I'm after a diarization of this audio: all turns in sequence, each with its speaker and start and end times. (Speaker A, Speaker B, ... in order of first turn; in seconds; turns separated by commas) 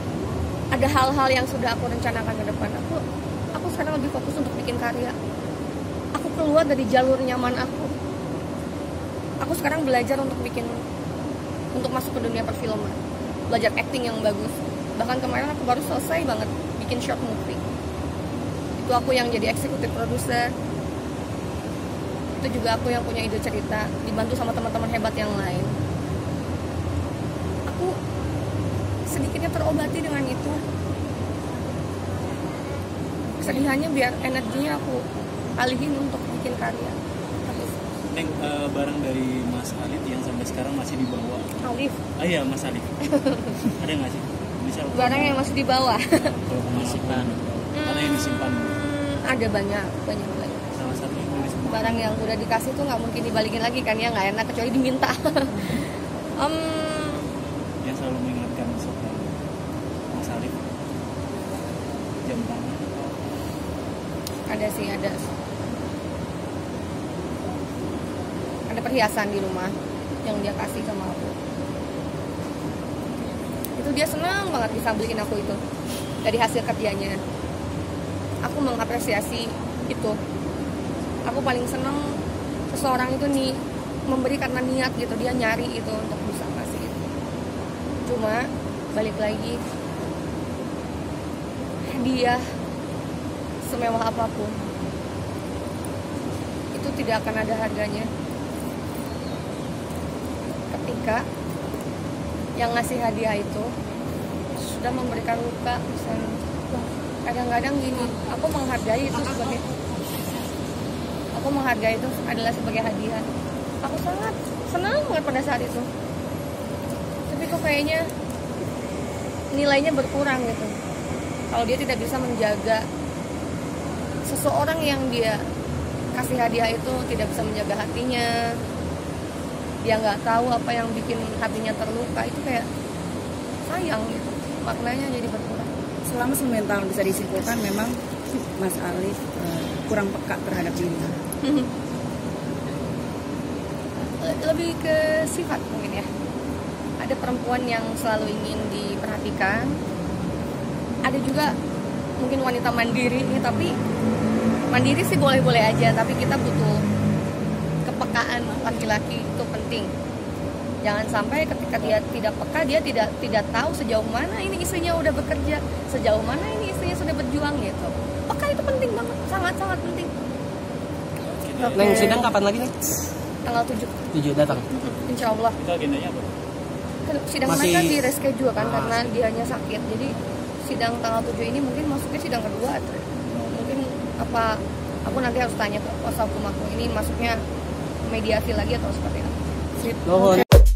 Speaker A: 0.7-3.0, Speaker A: 3.5-5.1, Speaker A: 6.2-7.9, Speaker A: 9.4-10.7, Speaker A: 11.7-13.0, Speaker A: 13.5-17.6, Speaker A: 18.8-20.5, Speaker A: 22.4-25.7, Speaker A: 27.7-27.9, Speaker A: 29.1-30.6, Speaker A: 33.4-35.0, Speaker A: 35.6-37.8, Speaker B: 38.1-41.5, Speaker A: 41.6-42.0, Speaker B: 42.2-42.9, Speaker A: 43.0-43.6, Speaker B: 43.6-45.6, Speaker A: 44.9-46.2, Speaker B: 46.2-48.8, Speaker C: 46.6-47.3, Speaker A: 47.7-50.6, Speaker B: 50.7-52.1, Speaker A: 51.6-55.9, Speaker A: 56.4-57.3, Speaker B: 57.8-59.4, Speaker B: 60.1-60.6, Speaker B: 62.2-63.4, Speaker A: 64.5-65.3, Speaker A: 68.7-71.3, Speaker A: 73.7-75.6, Speaker A: 76.2-77.2, Speaker A: 78.4-80.2, Speaker A: 81.2-82.0, Speaker A: 82.7-87.0, Speaker A: 88.0-89.6, Speaker A: 91.9-92.4, Speaker A: 93.7-94.6, Speaker A: 96.7-98.1, Speaker A: 100.7-101.2, Speaker A: 102.6-103.7, Speaker A: 104.7-109.6, Speaker A: 111.3-113.3, Speaker A: 113.8-115.9, Speaker A: 117.3-118.1, Speaker A: 119.5-120.7, Speaker A: 121.5-122.8, Speaker A: 124.2-125.4, Speaker A: 126.1-128.3, Speaker A: 129.8-132.7, Speaker A: 133.7-135.7, Speaker D: 136.1-141.2, Speaker A: 141.4-141.7, Speaker A: 144.2-146.1, Speaker A: 147.0-149.7, Speaker A: 151.0-151.5, Speaker A: 152.2-153.7, Speaker A: 154.7-156.8, Speaker A: 157.8-159.9, Speaker A: 160.8-170.1, Speaker B: 171.3-172.2, Speaker A: 171.6-172.3, Speaker C: 171.7-172.7, Speaker A: 173.4-174.0, Speaker C: 174.1-174.6, Speaker A: 174.5-175.6, Speaker B: 175.6-176.3, Speaker A: 177.0-187.4, Speaker C: 177.4-178.0, Speaker C: 178.6-179.1, Speaker A: 188.1-190.4, Speaker C: 190.1-190.4